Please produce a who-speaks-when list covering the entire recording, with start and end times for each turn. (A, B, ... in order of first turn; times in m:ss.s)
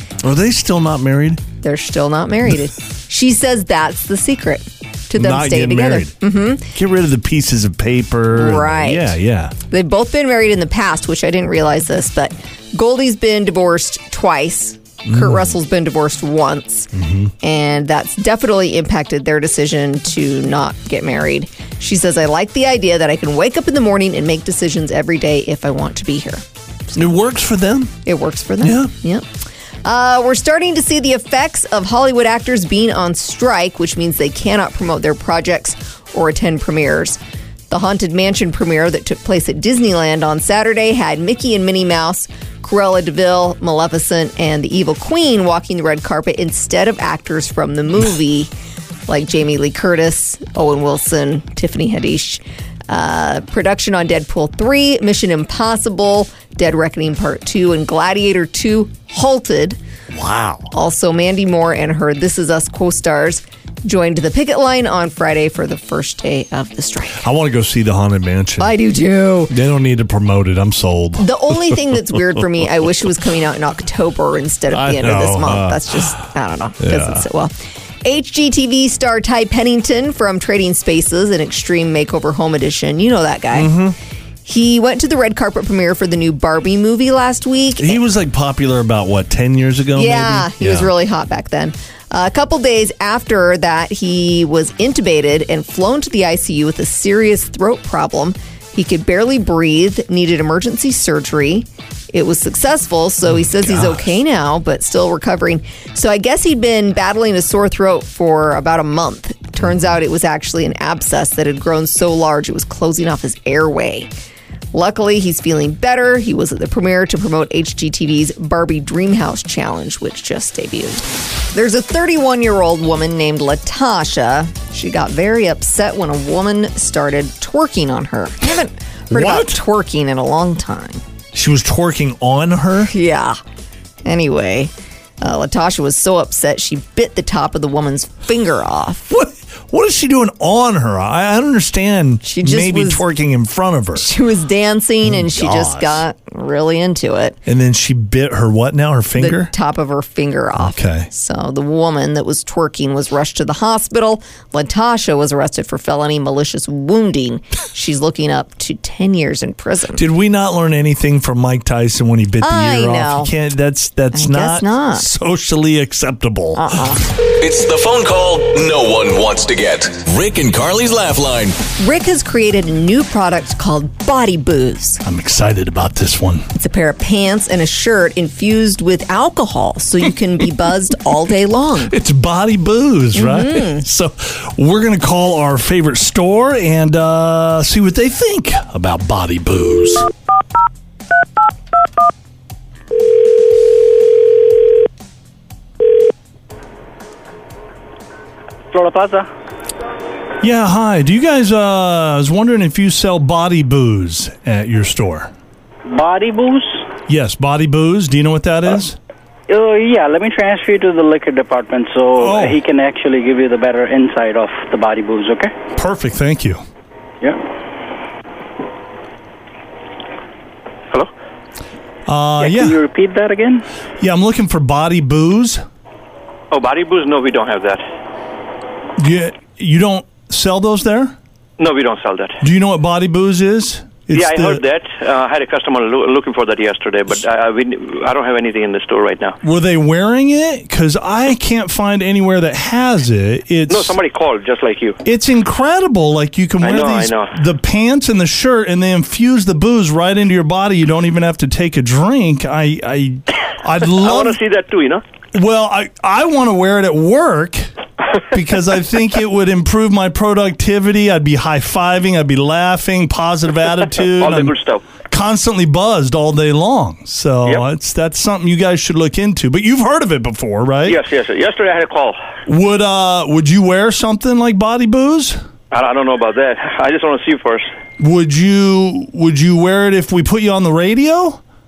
0:00.2-0:01.4 A
0:01.6-0:06.7 B
0:05.2-0:06.1 A
0:06.7-0:09.6 A
0:08.3-0:09.2 B
0:09.7-0:16.9 B
0:15.1-0:15.6 A
0:16.9-0:17.3 A
0:17.4-0:26.4 B
0:27.0-0:27.9 A
0:28.0-0:29.3 B
0:28.6-0:28.9 A
0:29.8-0:37.2 B
0:37.7-0:48.5 B
0:49.1-0:59.8 B
1:00.1-1:00.7 A
1:00.7-1:07.3 B
1:07.2-1:08.7 A
1:08.6-1:09.5 B
1:09.5-1:11.3 A
1:11.2-1:23.7 B
1:14.7-1:16.2 A
1:16.8-1:17.2 A
1:23.5-1:24.0 A
1:24.4-1:28.0 B
1:27.8-1:30.9 A
1:30.0-1:54.1 B
1:43.2-1:44.0 A
1:54.7-2:11.0 B
2:09.1-2:09.6 A
2:11.3-2:12.9 A
2:12.9-2:13.4 B
2:14.0-2:19.1 B
2:19.1-2:24.1 A
2:22.2-2:23.0 B
2:24.0-2:27.4 B
2:25.0-2:26.0 A
2:27.5-2:29.5 A
2:29.2-2:40.1 B
2:30.6-2:31.1 A
2:39.9-2:46.8 A
2:42.4-2:43.3 B
2:44.1-2:45.1 B
2:46.6-2:47.0 B
2:47.4-2:51.6 C
2:51.8-2:55.0 B
2:55.0-2:56.5 A
2:56.5-3:01.9 B
3:01.8-3:10.1 A
3:03.2-3:03.8 B
3:18.7-3:19.3 D
3:20.4-3:25.3 A
3:25.9-3:26.8 D
3:27.1-3:29.0 A
3:29.5-3:35.5 D
3:32.2-3:32.6 A
3:35.8-3:36.6 A
3:42.1-3:42.8 A
3:42.4-3:43.6 D
3:44.0-3:45.6 A
3:46.5-3:47.8 E
3:49.0-3:51.1 A
3:51.6-3:52.4 E
3:52.4-3:54.6 A
3:54.1-3:59.4 E
3:59.4-4:04.0 A
4:03.7-4:05.0 E
4:05.0-4:14.4 A
4:06.6-4:07.4 E
4:14.0-4:15.0 E
4:15.3-4:17.7 A
4:18.3-4:24.6 A
4:24.2-4:24.8 E
4:25.1-4:31.0 A
4:30.9-4:32.2 E
4:32.5-4:35.4 A
4:35.7-4:37.7 E
4:38.0-4:41.4 A